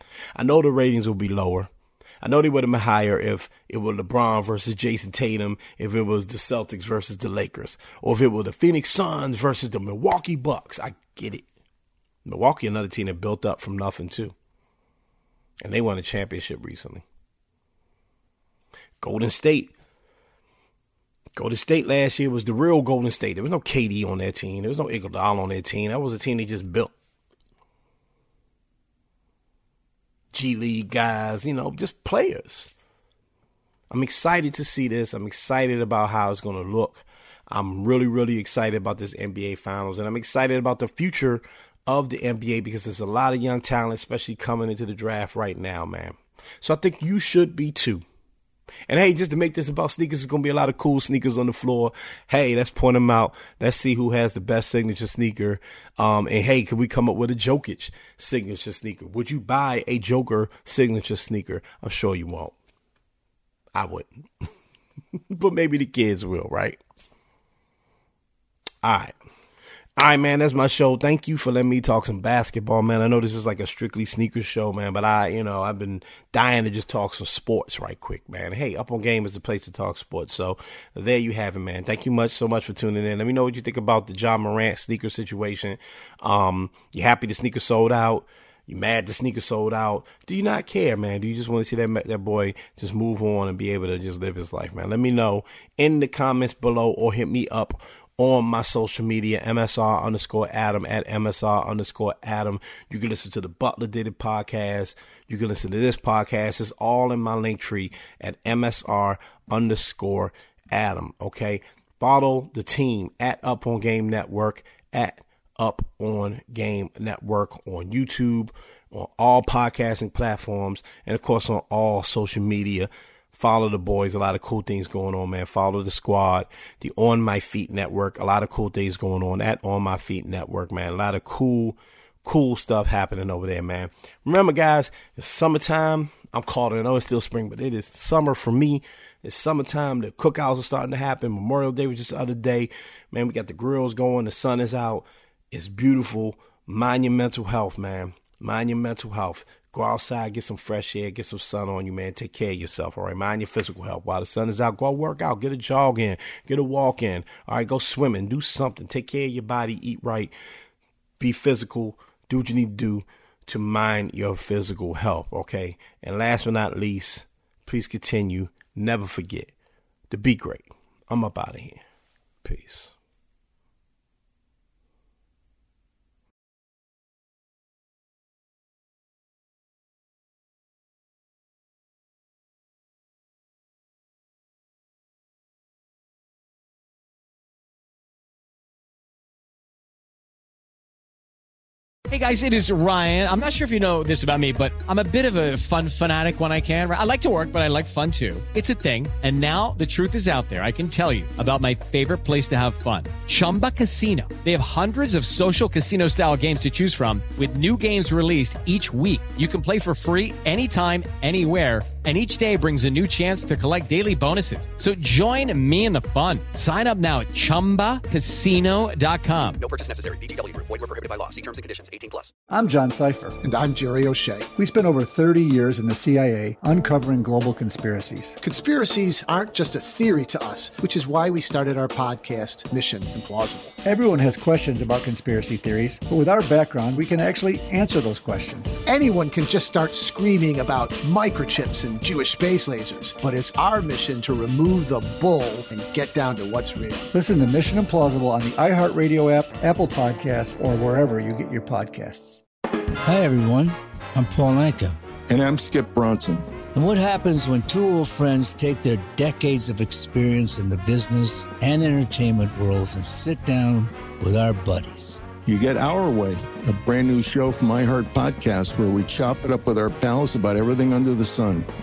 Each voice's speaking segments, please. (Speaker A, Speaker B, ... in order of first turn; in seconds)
Speaker A: 0.3-1.7, 2.2-11.4, 12.2-14.3, 15.6-17.0, 19.0-19.7, 21.4-26.9, 30.3-32.7, 33.9-48.0, 48.9-62.5, 63.7-64.5, 65.3-66.8, 68.8-69.1, 70.0-160.3, 161.2-169.5, 170.1-171.8, 172.4-172.9
Speaker B: 192.1-219.6
Speaker C: 219.6-222.3
Speaker D: 222.5-223.4, 224.6-228.4, 233.8-238.8, 247.1-252.4
Speaker E: 223.4-224.5, 228.4-233.7, 238.8-247.1
Speaker F: 253.0-255.0, 256.7-265.2
Speaker G: 255.3-256.5, 265.4-271.7